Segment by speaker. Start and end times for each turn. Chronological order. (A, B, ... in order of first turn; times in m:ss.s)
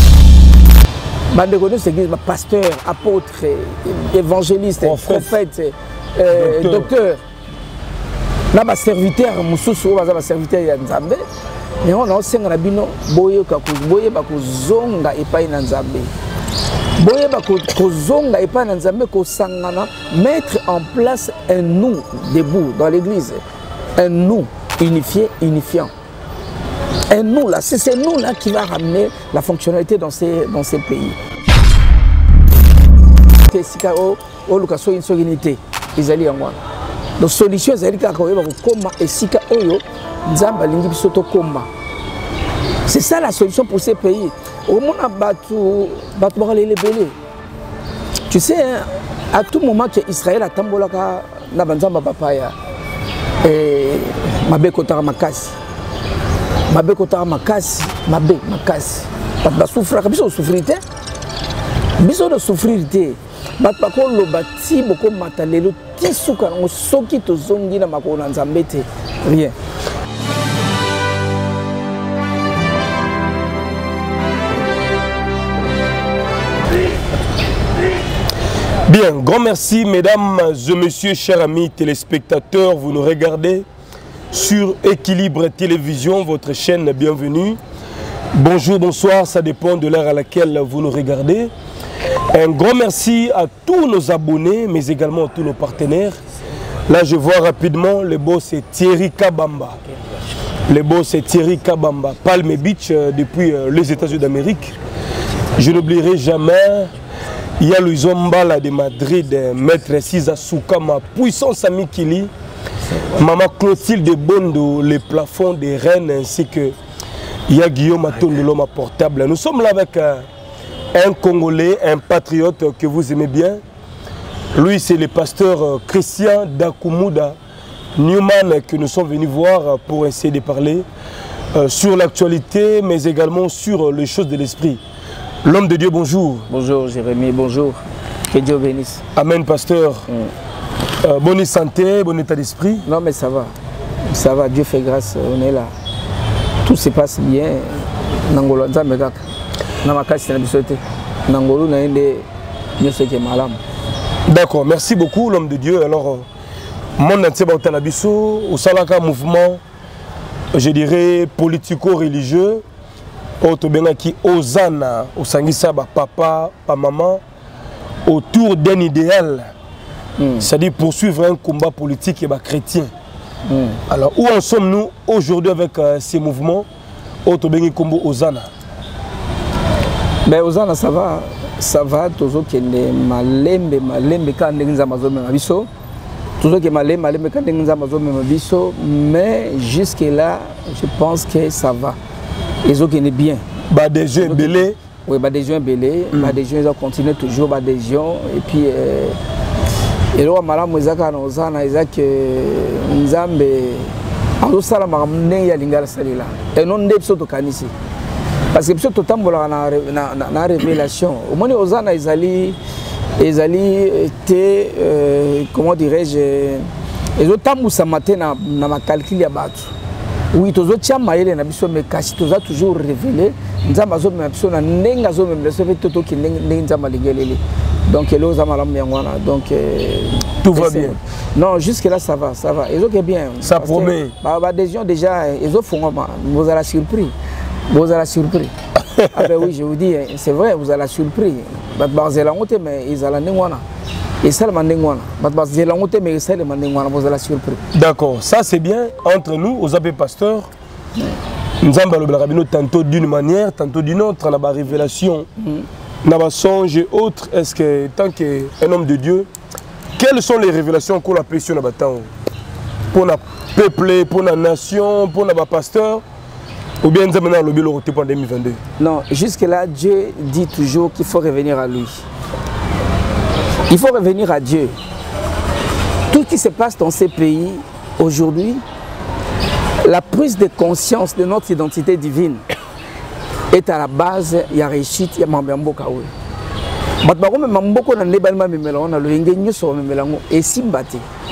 0:01.3-0:07.2 A
0:04.8-0:05.4 B
0:06.3-0:06.9 B
0:08.5-0:11.2 A
0:11.8-0:16.1 A
0:17.0-0:23.4 A
0:24.0-0:25.9 A
0:27.1-0:31.2 A
0:33.5-0:36.6 A
0:37.2-0:41.7 A
0:42.9-0:47.2 A
0:48.3-0:52.6 A
0:53.4-0:55.6 A
0:56.7-1:00.8 A
1:02.0-1:09.6 A
1:18.9-1:23.7 B
1:24.3-1:27.6 B
1:28.3-1:31.5 B
1:32.3-1:36.2 B
1:36.9-1:39.8 B
1:40.7-1:44.8 B
1:45.6-1:46.9 B
1:47.6-1:52.3 B
1:53.1-1:56.8 B
1:57.5-2:00.3 B
2:00.9-2:03.6 B
2:04.5-2:07.4 B
2:08.0-2:10.9 B
2:11.5-2:14.8 B
2:15.4-2:16.5 B
2:16.5-2:19.0 A
2:19.2-2:20.1 B
2:21.0-2:22.9 B
2:22.8-2:23.6 A
2:24.1-2:25.7 A
2:26.6-2:29.2 A
2:29.8-2:32.3 A
2:32.8-2:33.6 A
2:34.3-2:36.3 B
2:37.0-2:39.6 B
2:40.5-2:42.6 B
2:43.4-2:47.2 B
2:48.0-2:49.5 B
2:50.2-2:50.5 A
2:50.4-2:52.9 B
2:53.5-2:53.8 A
2:53.9-2:56.7 B
2:57.2-2:58.5 B
3:00.2-3:05.7 A
3:06.4-3:12.0 A
3:12.6-3:13.4 A
3:13.7-3:14.8 B
3:14.2-3:19.2 A
3:16.1-3:16.4 B
3:20.1-3:27.7 A
3:28.5-3:32.6 A
3:33.2-3:39.7 A
3:40.3-3:57.2 A
3:50.4-3:51.0 B
3:53.4-3:54.1 B
3:57.7-3:58.6 A
3:58.8-3:59.4 B
3:59.1-4:03.6 A
4:04.2-4:07.6 A
4:07.7-4:10.5 B
4:11.6-4:15.3 B
4:15.4-4:15.7 A
4:16.0-4:19.3 B
4:20.0-4:22.1 B
4:22.9-4:26.0 B
4:26.8-4:28.6 B
4:28.8-4:32.0 A
4:33.7-4:34.8 A
4:36.1-4:38.6 A
4:39.8-4:42.5 A
4:43.5-4:46.1 A
4:47.0-4:51.1 A